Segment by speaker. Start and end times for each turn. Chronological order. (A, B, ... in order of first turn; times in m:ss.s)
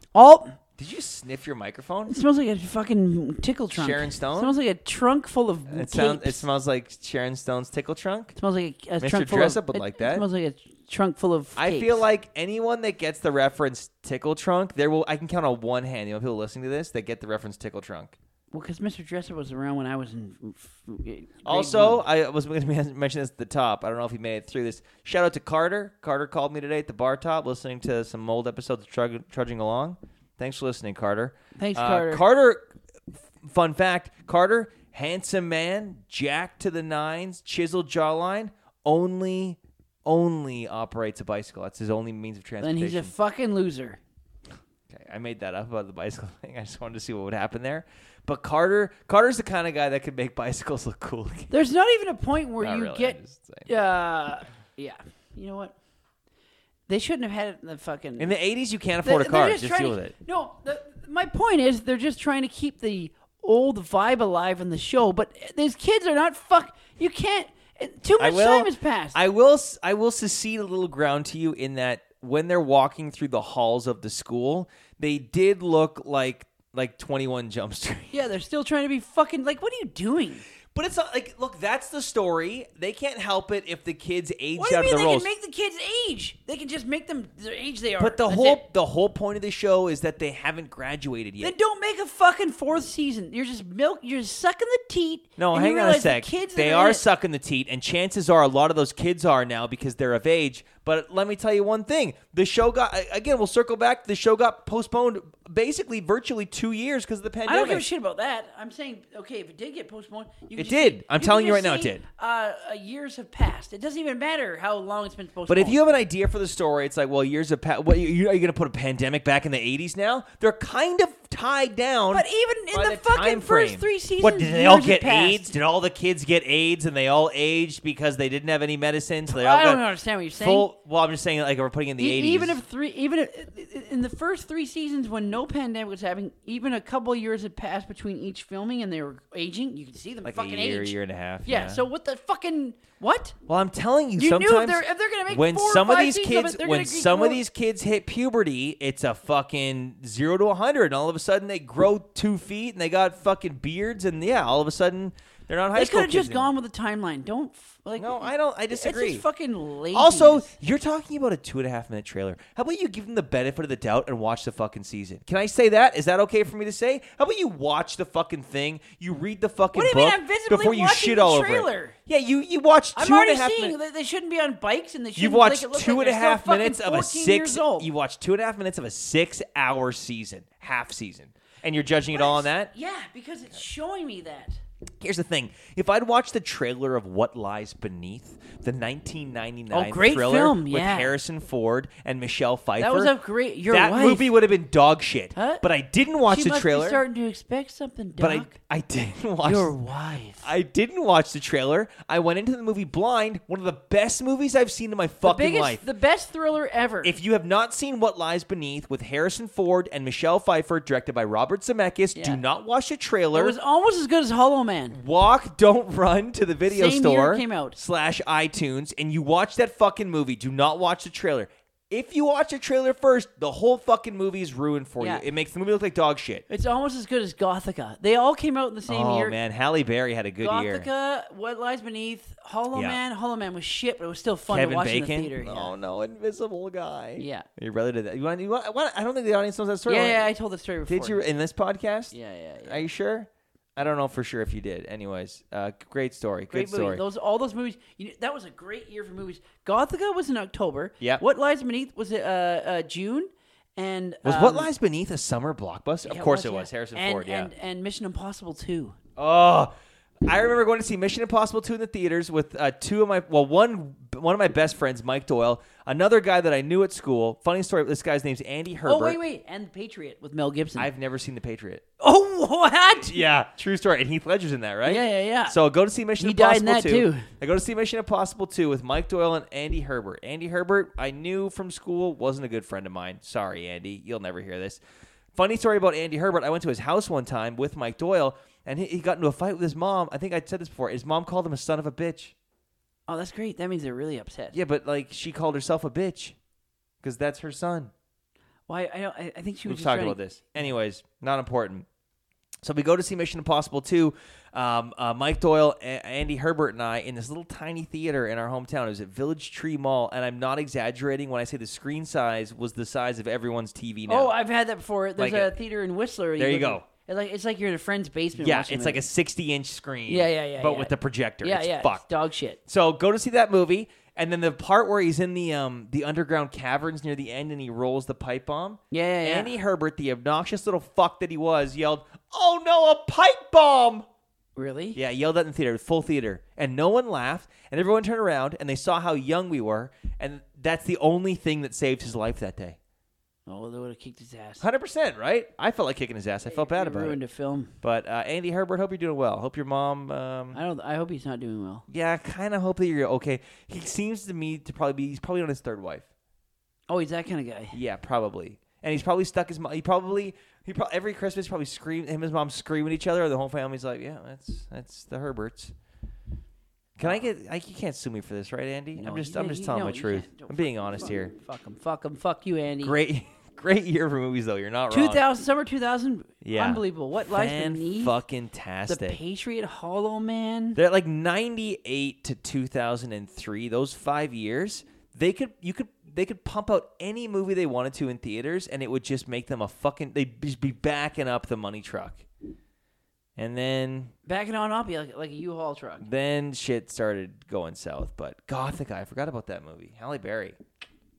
0:00.2-0:00.6 A
0:00.8-0:02.2 B
0:02.1-0:06.5 A
0:03.7-0:04.6 B
0:05.7-0:08.3 B
0:08.4-0:12.0 A
0:09.0-0:10.2 B
0:11.6-0:18.2 B
0:18.5-0:22.0 A
0:21.4-0:32.7 B
0:31.6-0:32.2 A
0:33.4-0:43.1 B
0:42.6-0:44.0 A
0:44.9-0:51.5 B
0:51.5-0:55.8 A
0:52.6-0:53.7 B
0:56.9-0:58.3 A
0:58.2-1:00.1 B
0:59.0-1:09.2 A
1:08.2-1:18.2 B
1:18.1-1:20.4 A
1:20.7-1:25.3 B
1:24.6-1:28.6 A
1:28.0-1:31.6 B
1:31.4-1:37.0 A
1:35.4-1:47.9 B
1:47.5-1:55.8 A
1:50.6-1:52.0 B
1:55.5-2:12.6 B
2:02.1-2:05.5 A
2:09.3-2:10.7 A
2:12.0-2:23.4 A
2:20.2-2:21.9 B
2:23.5-2:36.5 B
2:24.2-2:27.4 A
2:35.7-2:40.5 A
2:38.0-2:39.2 B
2:39.9-2:53.8 B
2:49.7-2:52.0 A
2:53.0-2:57.9 A
2:55.2-3:02.7 B
3:02.1-3:04.6 A
3:05.0-3:13.2 B
3:09.7-3:11.2 A
3:12.8-3:14.3 A
3:13.7-3:17.0 B
3:15.4-3:15.6 A
3:16.3-3:18.5 A
3:18.2-3:19.7 B
3:19.4-3:20.5 A
3:20.4-3:25.8 B
3:25.2-3:27.2 A
3:27.0-3:33.6 B
3:32.2-3:32.4 A
3:33.3-3:35.0 A
3:34.9-3:46.4 B
3:36.7-3:37.8 A
3:45.0-3:45.2 A
3:46.5-3:49.4 A
3:48.9-3:50.9 B
3:50.4-3:55.7 A
3:52.7-3:53.0 B
3:54.5-4:00.3 B
3:57.2-3:57.5 A
3:59.9-4:01.2 A
4:00.9-4:07.0 B
4:02.1-4:02.9 A
4:06.5-4:14.7 A
4:14.2-4:17.5 B
4:16.0-4:19.0 A
4:19.2-4:19.7 B
4:20.2-4:29.2 B
4:28.8-4:30.9 A
4:30.8-4:31.8 B
4:32.0-4:33.3 A
4:33.0-4:44.8 B
4:34.8-4:35.6 A
4:36.2-4:37.3 A
4:45.4-4:52.3 B
4:53.1-4:54.6 A
4:54.5-4:56.4 B
4:57.0-4:57.9 B
4:58.7-5:00.7 A
4:59.7-5:01.9 B
5:02.6-5:14.3 B
5:14.1-5:19.0 A
5:15.2-5:15.6 B
5:16.4-5:16.9 B
5:18.4-5:22.0 B
5:20.1-5:22.6 A
5:22.7-5:34.1 B
5:28.9-5:29.5 A
5:34.6-5:35.0 A
5:35.0-5:42.8 B
5:43.5-5:44.6 A
5:44.6-5:47.2 B
5:46.5-5:47.7 A
5:47.8-5:50.6 B
5:50.5-5:51.8 A
5:51.9-5:56.1 B
5:56.9-5:57.8 A
5:57.7-6:05.7 B
6:07.0-6:11.3 B
6:07.0-6:07.3 A
6:09.0-6:13.0 A
6:12.8-6:15.2 B
6:14.9-6:18.2 A
6:16.4-6:19.2 B
6:18.9-6:20.8 A
6:20.8-6:32.3 B
6:33.4-6:34.1 B
6:34.3-6:36.1 A
6:36.0-6:40.6 B